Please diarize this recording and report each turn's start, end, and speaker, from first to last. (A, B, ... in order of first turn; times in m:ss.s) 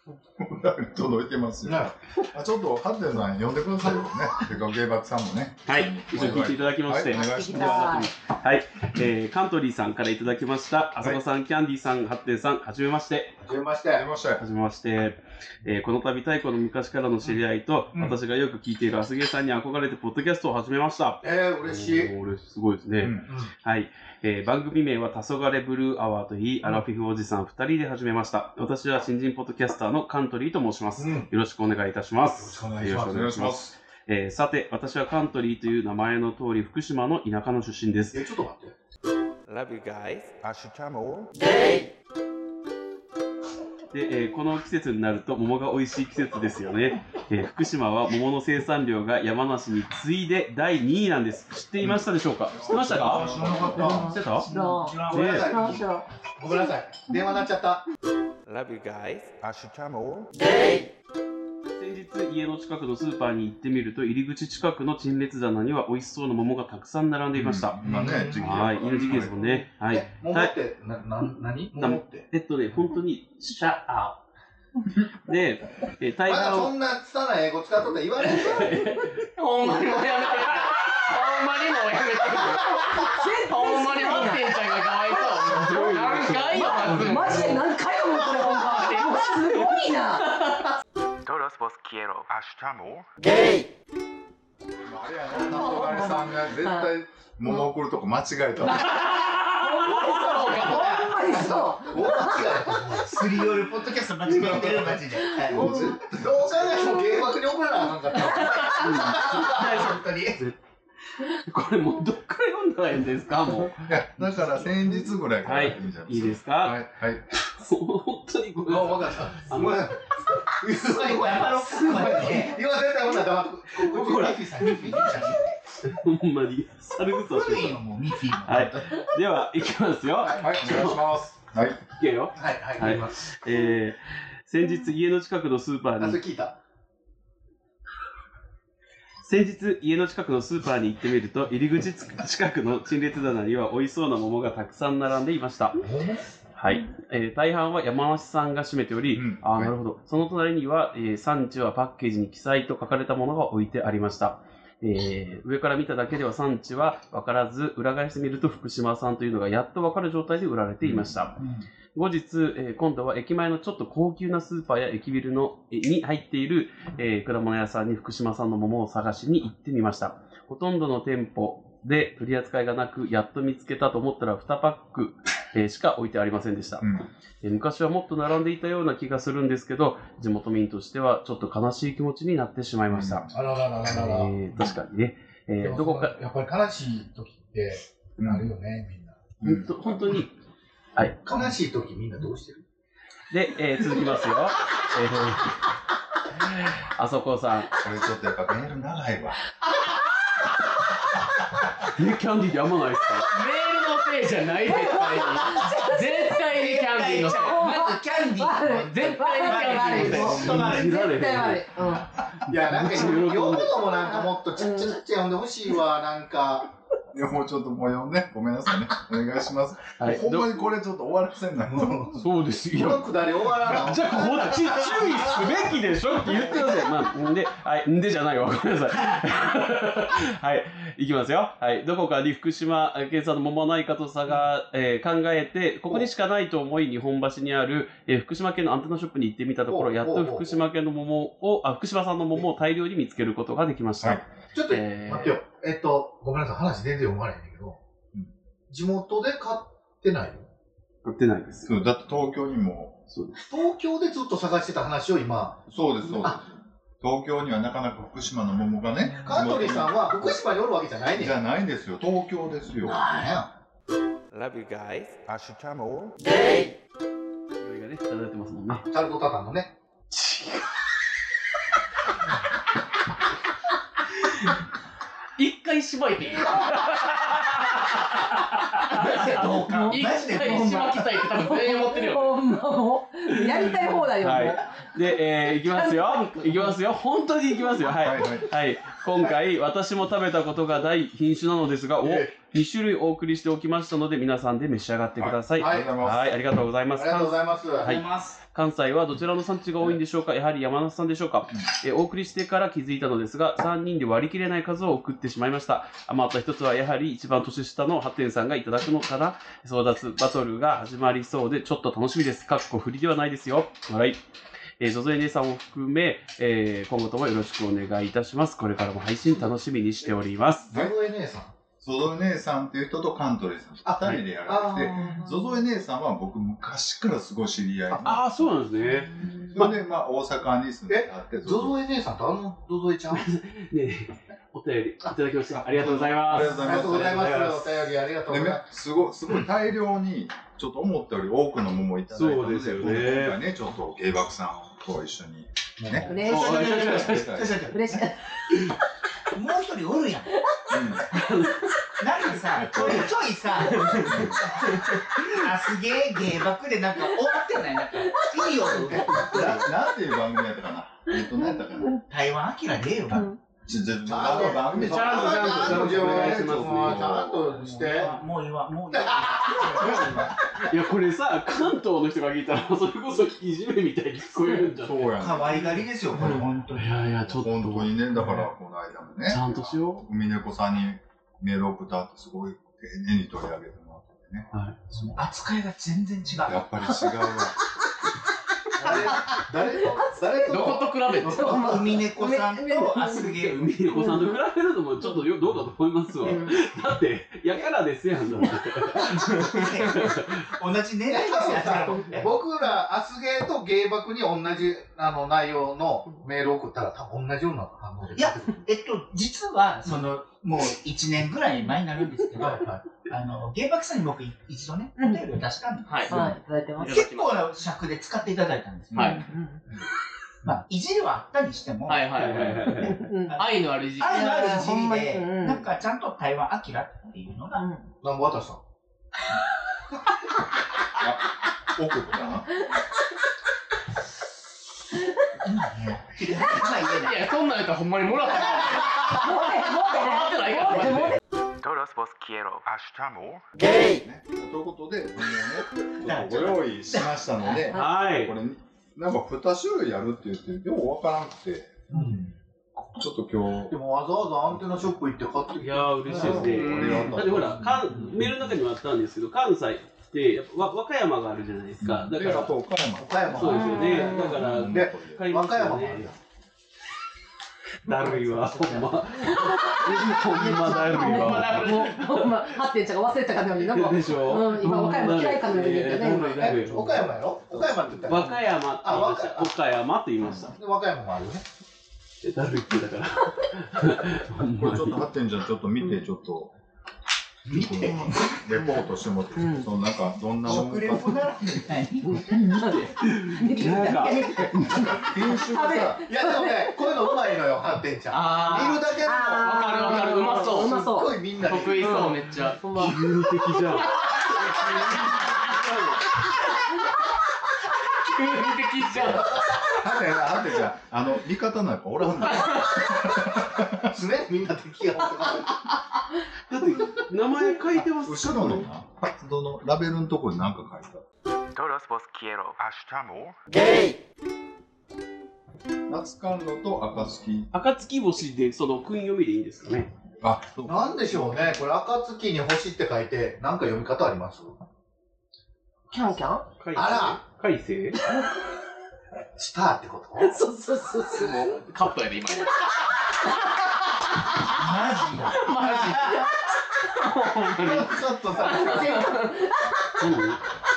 0:00.4-0:08.1 A
0:01.6-0:01.9 B
0:05.7-0:13.4 C
0:07.1-0:08.1 D
0:13.4-0:14.1 B
0:13.9-0:14.4 A
0:14.4-0:38.2 C
0:21.2-0:22.1 B
0:23.0-0:23.3 A
0:31.0-0:31.3 B
0:32.3-0:33.2 B
0:33.0-0:33.8 A
0:38.1-0:38.8 B
0:39.5-0:41.7 E
0:43.9-0:54.5 C
0:51.8-0:54.1 A
0:53.0-0:55.8 F
0:53.1-0:54.1 B
0:53.9-0:56.1 D
0:55.0-0:57.9 B
0:55.1-0:55.5 C
0:58.5-1:00.8 E
1:01.8-1:07.8 C
1:07.4-1:09.6 A
1:07.8-1:09.3 B
1:08.4-1:10.5 C
1:09.9-1:12.3 B
1:11.8-1:14.2 C
1:15.3-1:16.7 C
1:16.3-1:18.9 B
1:18.2-1:19.8 C
1:19.4-1:29.6 G
1:20.4-1:21.1 C
1:22.8-1:30.6 D
1:25.5-1:27.6 C
1:31.2-1:33.6 E
1:34.8-1:39.0 A
1:35.3-1:36.9 D
1:38.8-1:43.0 D
1:38.8-1:40.2 C
1:39.2-1:41.1 G
1:40.5-1:43.2 B
1:40.6-1:41.1 F
1:43.0-1:46.0 F
1:44.2-1:46.8 A
1:45.5-1:46.0 D
1:46.0-1:49.9 B
1:48.2-1:48.4 D
1:48.7-1:50.6 C
1:49.2-1:50.4 F
1:51.3-1:53.8 C
1:53.8-1:57.2 A
1:55.4-1:56.8 C
1:57.5-1:59.9 C
1:58.6-2:05.5 B
2:00.7-2:02.6 F
2:03.8-2:04.7 C
2:04.7-2:05.5 F
2:05.8-2:07.8 C
2:07.0-2:09.1 F
2:08.4-2:11.1 C
2:10.4-2:11.8 A
2:12.0-2:16.2 C
2:12.4-2:13.2 B
2:16.0-2:16.6 B
2:19.2-2:25.8 C
2:25.8-2:26.2 B
2:26.6-2:41.4 C
2:29.1-2:29.7 A
2:40.8-2:41.3 A
2:42.0-2:56.9 C
2:56.8-2:57.1 A
2:57.4-3:03.3 C
3:02.9-3:03.3 A
3:03.3-3:04.4 B
3:03.9-3:06.1 C
3:05.6-3:09.3 B
3:08.2-3:08.5 A
3:09.4-3:10.2 A
3:09.4-3:10.4 C
3:11.2-3:12.6 B
3:13.3-3:15.6 C
3:16.4-3:17.7 C
3:17.8-3:19.4 A
3:21.9-3:23.3 C
3:23.3-3:27.6 G
3:24.6-3:26.6 D
3:26.4-3:31.1 F
3:27.2-3:32.1 D
3:28.8-3:30.4 G
3:30.0-3:31.7 C
3:32.4-3:36.7 B
3:32.4-3:33.9 C
3:34.0-3:35.0 D
3:37.1-3:42.2 A
3:40.0-3:40.6 C
3:41.7-3:45.7 B
3:42.2-4:05.4 C
3:46.3-3:46.8 B
3:59.7-4:00.6 B
4:04.5-4:07.8 B
4:08.7-4:10.5 B
4:11.0-4:11.8 C
4:11.6-4:13.0 A
4:13.1-4:13.4 C
4:13.5-4:16.4 B
4:15.7-4:20.4 A
4:19.0-4:19.4 F
4:19.2-4:21.4 B
4:21.1-4:23.1 A
4:22.8-4:23.5 B
4:24.3-4:26.6 E
4:27.6-4:28.9 C
4:28.9-4:29.7 B
4:30.1-4:30.7 C
4:35.4-4:37.0 G
4:36.6-4:38.9 C
4:38.9-4:42.6 G
4:38.9-4:41.1 F
4:39.0-4:46.8 D
4:43.3-5:14.2 C
4:48.0-4:48.5 A
4:52.0-4:52.3 B
4:55.2-4:56.4 A
4:55.6-4:55.9 B
4:57.0-4:58.0 B
4:57.8-4:58.4 F
5:14.8-5:20.7 C
5:20.7-5:21.5 B
5:21.8-5:28.6 A
5:23.9-5:25.2 B
5:25.0-5:25.4 D
5:28.0-5:29.8 C
5:29.2-5:31.8 A
5:30.9-5:33.3 B
5:33.1-5:37.7 C
5:35.6-5:37.4 A
5:36.4-5:38.7 B
5:38.3-5:47.7 A
5:42.1-5:43.4 C
5:45.8-5:46.2 B
5:46.0-5:47.0 D
5:46.2-5:48.1 F
5:46.2-5:47.3 C
5:47.6-5:48.5 D
5:49.3-5:50.4 F
5:50.7-5:51.1 A
5:51.2-5:51.7 C
5:52.0-5:59.6 F
5:52.4-5:52.8 C
5:52.7-5:53.1 A
5:54.0-5:54.8 A
5:58.7-5:59.7 B
5:59.3-6:02.0 A
6:02.0-6:03.3 F
6:03.1-6:03.4 D
6:03.7-6:08.1 A
6:04.1-6:08.2 B
6:04.8-6:07.1 C
6:07.5-6:10.4 F
6:08.9-6:10.3 B
6:09.8-6:10.3 A
6:10.5-6:15.1 C
6:14.4-6:14.7 D
6:14.8-6:16.4 A
6:15.2-6:16.9 F
6:16.2-6:18.4 C
6:17.3-6:25.2 A
6:19.3-6:20.1 C
6:25.1-6:26.7 F
6:26.4-6:27.6 A
6:26.9-6:27.2 D
6:28.8-6:31.8 B
6:29.0-6:34.4 D
6:30.4-6:31.8 G
6:31.4-6:34.1 F
6:33.1-6:40.5 C
6:36.2-6:36.6 D
6:39.2-6:39.8 G
6:39.3-6:42.4 F
6:41.1-6:48.6 B
6:48.2-6:59.2 F
6:52.4-6:52.8 B
6:55.0-6:55.2 D
6:55.9-6:56.2 G
6:56.1-6:57.0 D
6:56.8-6:57.4 G
6:58.9-6:59.3 A
6:58.9-6:59.2 G
6:59.0-6:59.6 D
7:00.4-7:07.7 F
7:01.9-7:04.4 G
7:02.2-7:03.0 C
7:02.9-7:03.4 D
7:04.2-7:05.7 D
7:07.6-7:07.8 D
7:08.0-7:08.6 B
7:11.0-7:12.5 A
7:15.4-7:17.2 F
7:16.6-7:21.2 G
7:19.1-7:21.2 D
7:21.6-7:23.7 E
7:23.6-7:31.9 A
7:26.0-7:27.6 F
7:27.7-7:28.4 C
7:31.9-7:32.3 B
7:33.0-7:33.8 A
7:33.7-7:36.6 B
7:34.5-7:34.9 A
7:35.6-7:42.6 C
7:36.2-7:38.5 A
7:36.5-7:37.1 G
7:41.8-7:45.3 A
7:43.0-7:46.2 B
7:43.4-7:46.1 C
7:43.4-7:44.4 D
7:47.8-7:52.4 C
7:47.9-7:49.0 B
7:49.2-7:56.6 D
7:50.8-7:52.1 G
7:53.6-7:57.1 C
7:55.8-7:59.5 B
7:57.5-7:57.9 A
7:58.0-8:00.6 C
8:00.5-8:01.4 B
8:02.2-8:05.0 C
8:04.5-8:06.5 A
8:07.5-8:08.4 F
8:07.5-8:11.6 A
8:09.4-8:09.7 D
8:10.4-8:12.4 F
8:12.0-8:14.2 C
8:12.5-8:17.2 D
8:14.1-8:16.1 A
8:16.0-8:22.0 B
8:18.1-8:18.8 G
8:19.0-8:21.2 D
8:19.4-8:20.8 G
8:21.4-8:22.6 G
8:21.8-8:26.0 C
8:22.5-8:23.0 D
8:23.9-8:24.8 G
8:28.0-8:29.3 G
8:28.9-8:33.9 A
8:29.6-8:30.6 B
8:32.2-8:32.8 G
8:33.9-8:35.6 B
8:36.5-8:38.7 C
8:38.0-8:41.0 A
8:41.5-8:43.9 E
8:45.9-8:47.5 A
8:47.5-8:49.9 C
8:50.2-8:51.6 A
8:50.6-8:54.6 B
8:55.9-8:56.5 D
8:56.6-8:58.0 C
8:56.8-8:57.2 B
8:59.4-9:00.4 B
9:00.2-9:01.6 D
9:01.1-9:03.0 G
9:04.5-9:06.3 F
9:05.3-9:09.4 G
9:05.6-9:06.3 D
9:07.6-9:09.0 A
9:07.6-9:09.1 B
9:08.2-9:10.1 D
9:10.0-9:10.4 C